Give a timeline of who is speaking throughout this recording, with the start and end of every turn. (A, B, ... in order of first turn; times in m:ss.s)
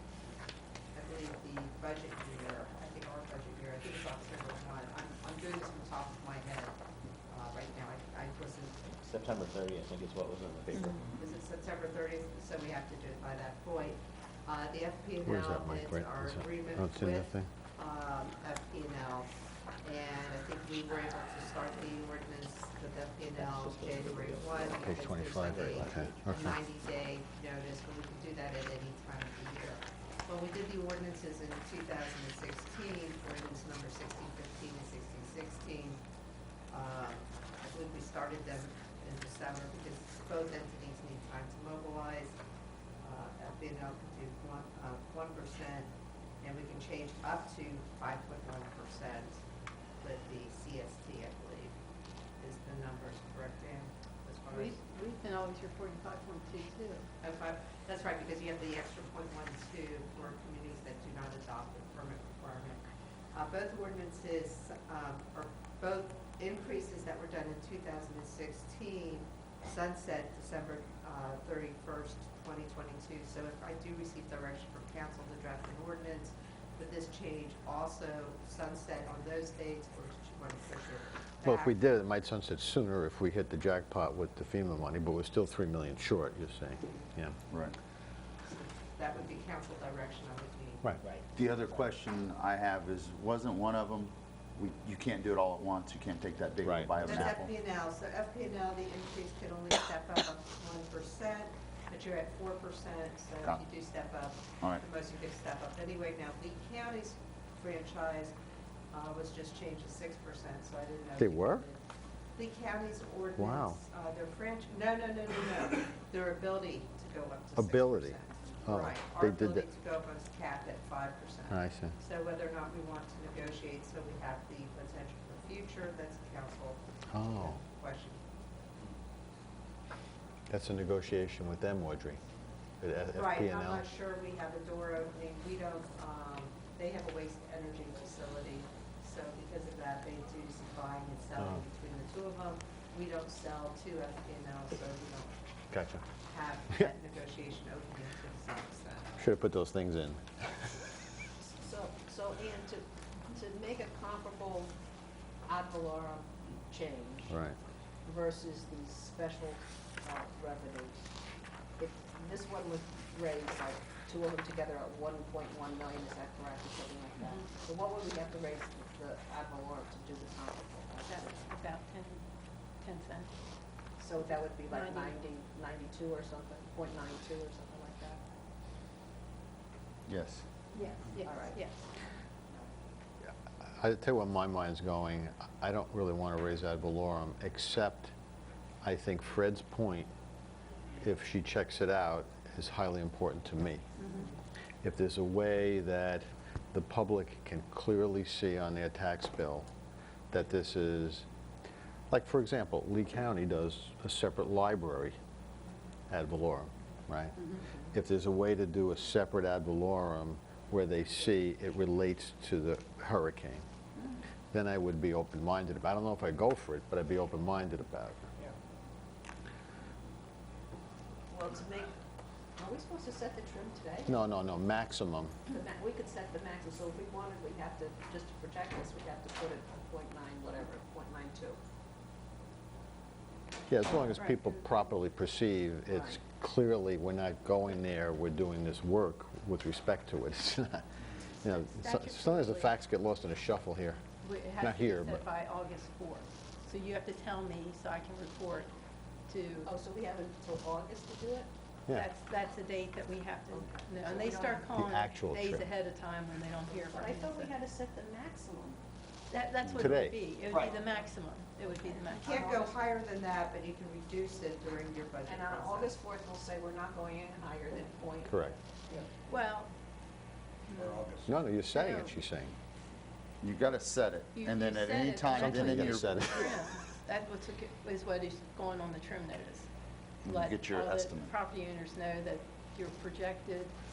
0:00.9-0:06.7 A
0:07.3-0:09.0 A
0:09.0-0:11.1 B
0:11.0-0:19.3 A
0:15.2-0:17.5 C
0:19.8-0:36.0 A
0:23.3-0:26.0 B
0:24.8-0:26.6 C
0:36.7-0:42.4 A
0:43.0-0:49.4 A
0:50.0-0:51.8 A
0:52.4-0:54.8 A
0:54.5-0:57.1 D
0:57.2-1:21.8 A
1:21.4-1:27.4 C
1:27.5-1:27.8 E
1:28.4-1:30.9 A
1:31.3-1:37.5 E
1:36.6-1:37.2 C
1:37.0-1:48.4 A
1:48.9-1:51.8 A
1:51.2-1:51.6 C
1:52.4-2:08.2 A
1:53.4-1:53.8 C
1:57.6-1:59.6 C
2:01.5-2:01.9 C
2:07.1-2:07.6 C
2:10.5-2:12.2 C
2:12.8-2:13.8 C
2:13.1-2:25.3 A
2:25.7-2:26.0 C
2:26.2-2:29.2 A
2:29.2-2:30.7 C
2:31.4-2:34.7 F
2:35.5-2:37.4 F
2:37.3-2:37.6 C
2:38.0-2:41.1 F
2:41.8-2:51.5 F
2:51.1-2:52.2 D
2:52.8-2:53.3 D
2:54.0-2:58.2 F
2:54.2-2:55.2 D
3:00.1-3:00.4 E
3:00.7-3:01.9 D
3:01.2-3:01.6 F
3:03.2-3:08.1 C
3:08.8-3:10.1 C
3:11.0-3:13.8 C
3:14.0-3:14.3 D
3:14.8-3:19.7 C
3:20.3-3:21.2 C
3:22.1-3:25.1 C
3:26.1-3:33.6 C
3:34.5-3:38.3 C
3:41.3-3:42.0 F
3:42.6-3:44.1 F
3:44.0-3:45.4 C
3:45.5-3:51.6 F
3:53.7-4:04.0 C
3:53.9-3:55.0 D
3:55.9-3:56.2 F
4:01.6-4:02.7 D
4:04.2-4:08.7 D
4:04.6-4:05.2 C
4:09.3-4:09.7 D
4:09.6-4:11.5 F
4:11.9-4:17.5 D
4:13.5-4:14.7 F
4:14.7-4:15.7 C
4:16.7-4:18.8 F
4:19.3-4:22.5 D
4:19.6-4:20.2 C
4:21.6-4:22.7 F
4:22.2-4:26.0 A
4:25.2-4:29.0 F
4:28.2-4:28.6 C
4:29.2-4:29.7 D
4:30.7-4:31.1 D
4:30.8-4:31.3 B
4:31.2-4:32.5 C
4:31.7-4:32.1 D
4:33.4-4:36.5 E
4:34.3-4:39.7 D
4:35.4-4:36.4 C
4:36.2-4:36.6 F
4:40.2-4:41.3 E
4:40.2-4:43.8 D